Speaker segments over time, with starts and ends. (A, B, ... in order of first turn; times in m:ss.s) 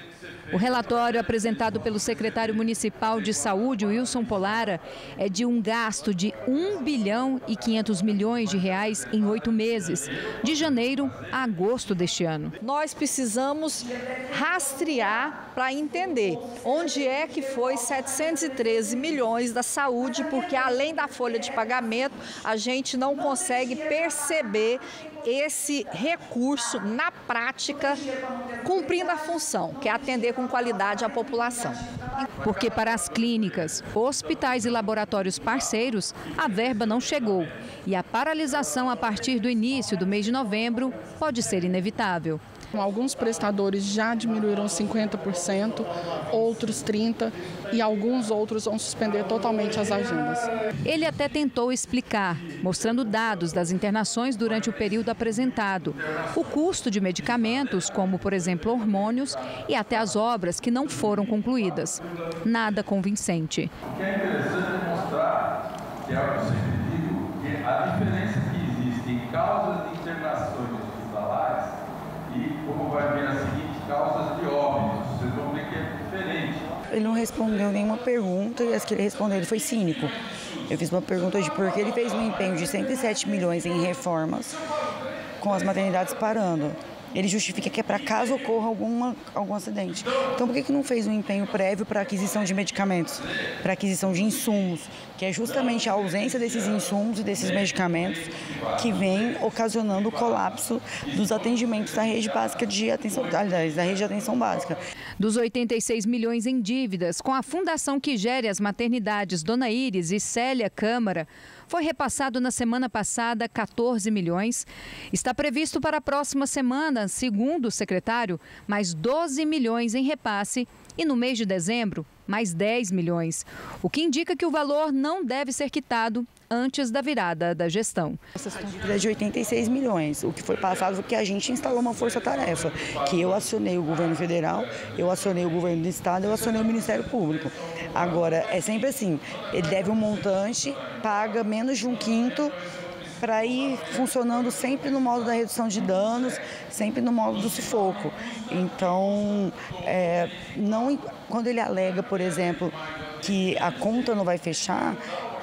0:00.5-0:12.6 A
0:12.6-0:32.1 B
0:32.4-0:42.4 A
0:42.8-0:50.5 C
0:50.8-1:03.7 A
1:03.9-1:05.5 D
1:06.0-1:11.7 D
1:12.2-1:16.6 D
1:16.9-1:20.1 E
1:20.7-1:24.6 E
1:25.4-1:44.8 E
1:45.2-2:08.2 A
2:08.4-2:22.6 E
2:23.2-2:35.0 E